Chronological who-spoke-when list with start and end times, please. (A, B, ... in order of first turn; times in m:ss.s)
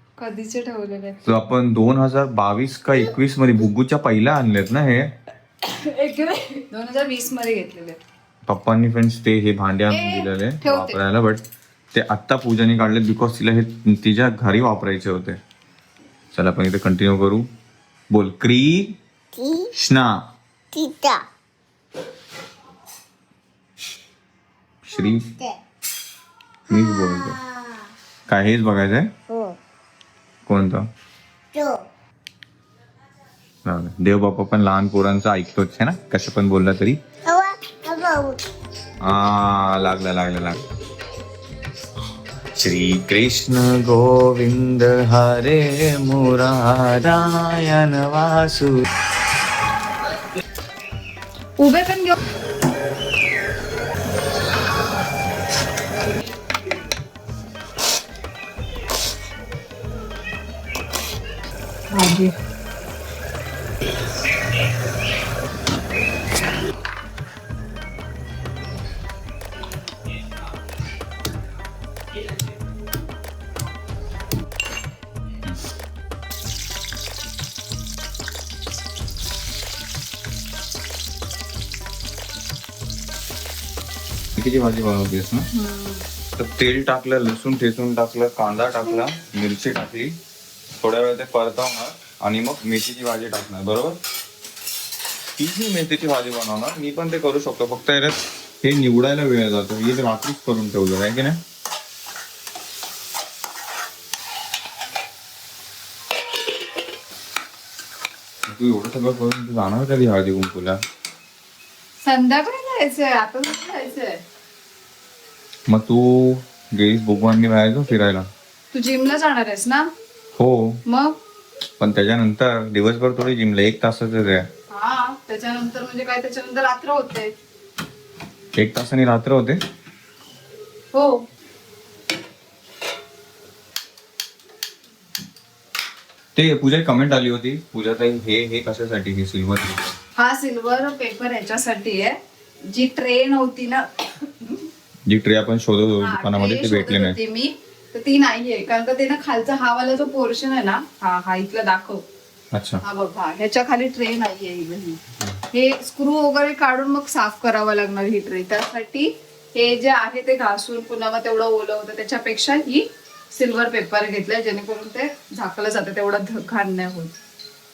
0:00.2-0:01.2 A
0:01.2-0:05.1 B
0:05.6-0:08.0 A
0:08.5-0:11.4 B
0:09.9-0:11.0 A
0:11.9-0:15.4 B
0:16.3-0:17.5 B
0:18.1-0:19.0 B
0:19.3-0:19.7 C
0:19.7-0:20.2 B
0:20.7-0:21.2 C
0:24.8-0:25.3 B
0:25.0-0:25.6 C
0:26.7-0:27.4 B
0:26.7-0:27.9 C
0:28.3-0:29.1 B
0:29.3-0:29.6 C
0:30.5-0:30.8 B
0:31.5-0:31.8 C
0:33.6-0:37.0 B
0:37.2-0:38.4 C
0:39.0-0:40.6 B
0:42.6-0:48.7 B
0:51.6-0:52.2 A
1:01.9-1:02.3 A
1:24.4-1:25.5 B
1:25.5-1:26.0 A
1:26.4-1:30.2 B
1:30.8-1:34.0 B
1:35.4-1:41.4 B
1:48.5-1:50.8 B
1:52.0-1:54.2 A
1:55.7-1:58.3 B
1:58.7-1:59.9 A
2:00.4-2:00.8 B
2:00.9-2:01.2 A
2:01.8-2:04.5 B
2:04.7-2:07.3 A
2:08.6-2:09.6 B
2:10.9-2:11.2 A
2:16.4-2:19.9 B
2:20.2-2:22.2 A
2:22.7-2:24.7 A
2:25.1-2:27.2 B
2:26.0-2:32.0 A
2:32.5-2:32.8 B
2:32.8-2:35.0 A
2:35.5-2:47.2 A